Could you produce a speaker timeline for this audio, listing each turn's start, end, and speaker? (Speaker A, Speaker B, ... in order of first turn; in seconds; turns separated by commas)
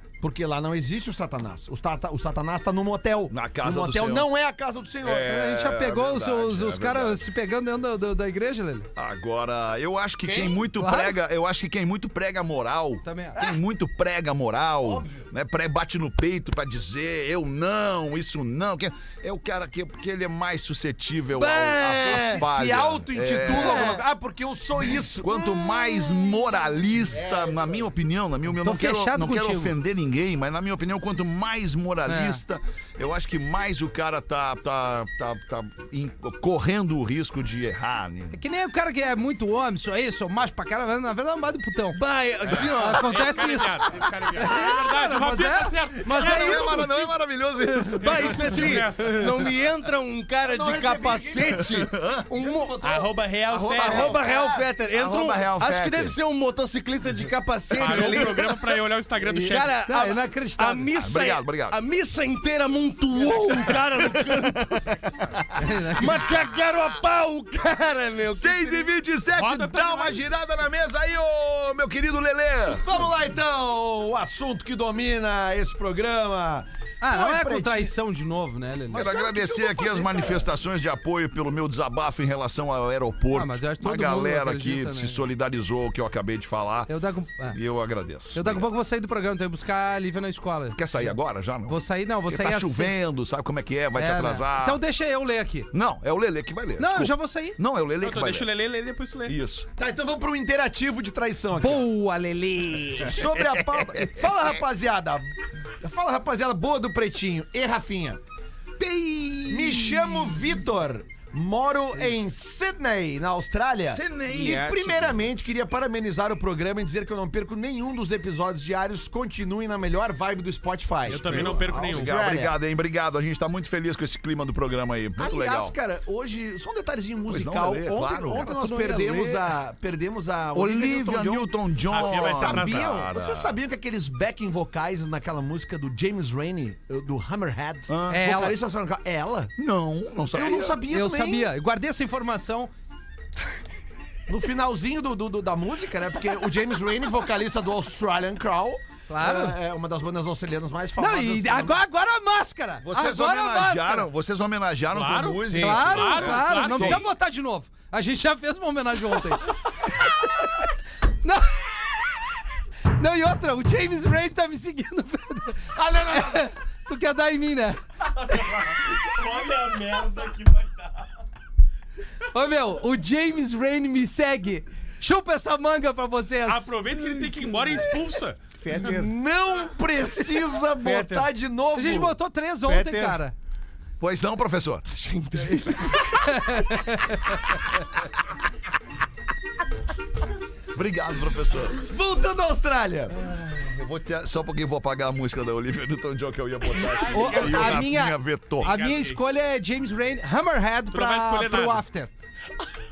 Speaker A: 0.2-5.4, Speaker B: 3.3-4.3, Speaker B: 5.0-7.2, Speaker C: 5.1-8.9, Speaker B: 8.9-24.0, Speaker A: 10.3-10.5, Speaker C: 10.7-11.2, Speaker C: 13.0-13.4, Speaker A: 14.8-15.2, Speaker D: 21.3-22.4, Speaker A: 22.0-27.9, Speaker B: 25.2-38.4, Speaker C: 28.6-29.7, Speaker C: 32.0-32.4, Speaker C: 38.3-42.0, Speaker D: 41.9-43.1, Speaker E: 42.5-47.1, Speaker C: 42.8-43.8, Speaker C: 44.4-46.9, Speaker B: 46.1-48.9, Speaker D: 48.0-52.8, Speaker E: 48.0-49.5, Speaker A: 50.4-53.1, Speaker B: 51.4-52.2, Speaker E: 52.8-54.1, Speaker B: 53.5-56.1, Speaker A: 53.7-54.6, Speaker D: 53.8-58.7, Speaker E: 57.8-59.7, Speaker B: 57.8-58.2, Speaker D: 59.2-64.8, Speaker C: 59.9-60.9, Speaker B: 61.0-61.8, Speaker B: 63.6-65.7, Speaker C: 65.6-66.2, Speaker D: 66.0-68.9, Speaker B: 68.3-72.9, Speaker E: 69.3-70.2, Speaker A: 72.7-77.9, Speaker C: 77.0-79.1, Speaker A: 78.9-80.5, Speaker B: 78.9-86.9, Speaker C: 83.3-85.2, Speaker C: 86.9-87.6, Speaker B: 87.5-88.7, Speaker C: 88.3-90.8, Speaker B: 90.7-94.8, Speaker C: 91.7-93.0, Speaker C: 93.9-95.7, Speaker B: 95.7-98.5, Speaker C: 96.8-97.6, Speaker E: 98.0-99.4, Speaker B: 99.2-99.7, Speaker A: 99.8-101.8, Speaker C: 101.5-103.2, Speaker A: 103.0-108.2, Speaker B: 103.3-104.2, Speaker B: 108.8-110.5, Speaker A: 109.5-122.5, Speaker B: 113.8-115.2, Speaker E: 121.0-122.2, Speaker B: 121.0-125.7, Speaker A: 125.2-139.5, Speaker B: 127.3-128.5, Speaker C: 128.3-129.5, Speaker B: 130.5-133.6, Speaker E: 131.9-133.0, Speaker B: 137.9-138.3, Speaker C: 138.1-138.6, Speaker B: 139.6-140.8, Speaker A: 140.3-141.5, Speaker C: 140.9-142.7, Speaker A: 144.3-151.8, Speaker C: 149.1-149.6, Speaker C: 151.0-154.1, Speaker B: 152.8-157.0, Speaker E: 154.9-157.1, Speaker D: 155.4-155.8, Speaker C: 155.6-160.7, Speaker C: 161.2-161.8, Speaker C: 162.9-167.8, Speaker E: 168.2-171.0, Speaker C: 172.3-176.7, Speaker E: 176.4-178.4, Speaker D: 178.6-179.1, Speaker A: 178.7-182.2, Speaker D: 180.8-181.3, Speaker C: 181.7-183.3, Speaker D: 182.7-183.2, Speaker B: 184.0-184.8, Speaker D: 184.9-186.1, Speaker C: 186.2-187.4, Speaker B: 190.7-191.8, Speaker A: 191.8-193.2, Speaker B: 193.1-198.7, Speaker E: 196.9-197.9, Speaker C: 197.1-202.1, Speaker E: 198.6-199.2, Speaker E: 200.9-201.8